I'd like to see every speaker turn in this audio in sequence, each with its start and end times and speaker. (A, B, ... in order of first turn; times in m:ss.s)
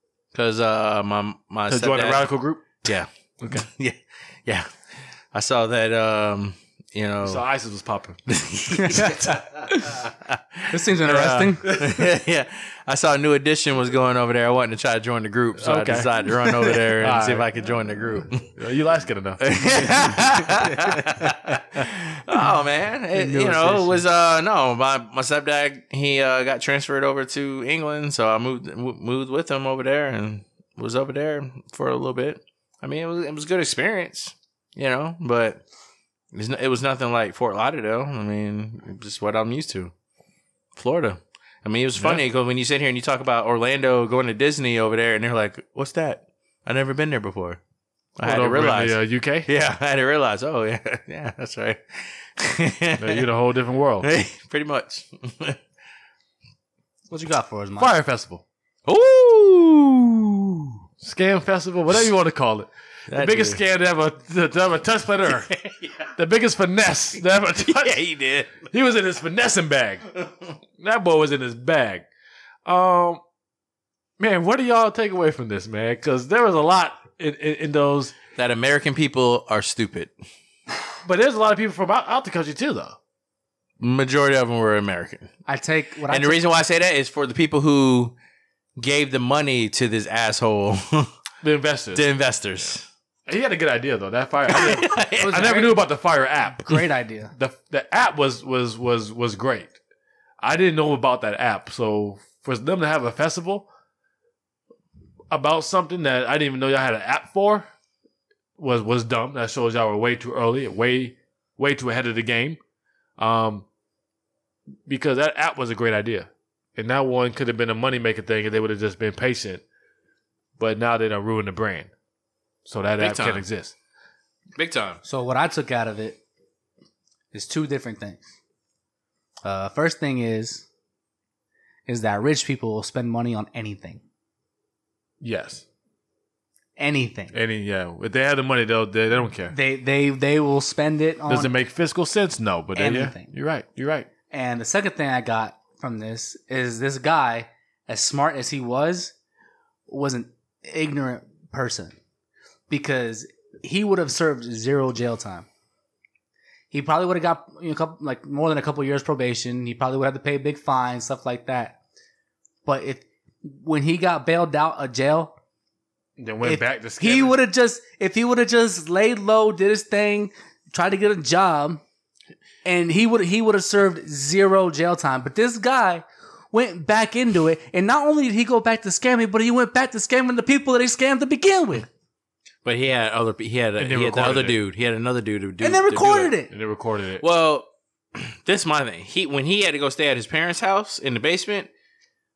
0:00.3-0:04.7 A
0:01.7-0:02.8 B
0:03.4-0:03.7 B
0:05.3-0:07.4 A
0:07.2-0:08.2 B
0:08.3-0:18.5 A
0:08.8-0:10.0 C
0:10.7-0:11.7 C
0:11.2-0:11.9 B
0:15.6-0:16.1 B
0:16.9-0:17.5 B
0:18.4-0:20.2 B
0:19.4-0:35.6 A
0:23.1-0:24.0 C
0:36.3-0:39.9 A
0:40.7-0:47.6 A
0:42.0-0:42.2 B
0:48.2-0:53.2 A
0:48.2-0:49.5 B
0:53.0-0:54.1 B
0:54.0-0:55.6 A
0:57.1-0:57.9 C
0:57.8-0:58.4 B
0:58.8-1:00.7 A
1:01.0-1:05.5 B
1:03.1-1:03.6 A
1:05.3-1:06.1 A
1:06.2-1:08.0 B
1:07.6-1:08.7 A
1:08.6-1:10.1 B
1:10.8-1:12.0 B
1:12.6-1:13.2 B
1:14.2-1:18.1 B
1:18.4-1:20.1 A
1:21.0-1:23.0 B
1:23.8-1:25.3 A
1:25.5-1:26.4 C
1:26.1-1:28.1 A
1:28.8-1:31.1 A
1:31.4-1:32.0 B
1:31.9-1:32.8 A
1:33.3-1:39.7 B
1:34.5-1:35.6 A
1:34.9-1:35.7 C
1:36.6-1:37.3 C
1:40.4-1:43.7 B
1:45.3-1:47.7 B
1:48.6-1:52.6 B
1:53.2-1:53.6 B
1:54.9-1:59.6 B
2:00.6-2:01.9 B
2:02.6-2:03.7 B
2:03.0-2:03.4 A
2:04.6-2:05.0 A
2:05.0-2:06.2 C
2:07.3-2:08.3 C
2:09.4-2:10.6 C
2:11.9-2:14.0 C
2:15.2-2:15.6 B
2:16.8-2:17.3 C
2:17.3-2:19.5 B
2:19.5-2:21.5 C
2:21.3-2:24.1 B
2:22.8-2:23.3 C
2:24.3-2:29.1 C
2:29.9-2:32.0 C
2:32.7-2:35.4 C
2:36.7-2:41.8 C
2:42.6-2:45.3 C
2:46.2-2:47.4 B
2:46.4-2:51.8 C
2:52.6-3:01.9 C
3:02.6-3:06.3 A
3:03.8-3:04.6 B
3:05.6-3:06.5 C
3:06.5-3:07.2 B
3:07.2-3:11.7 A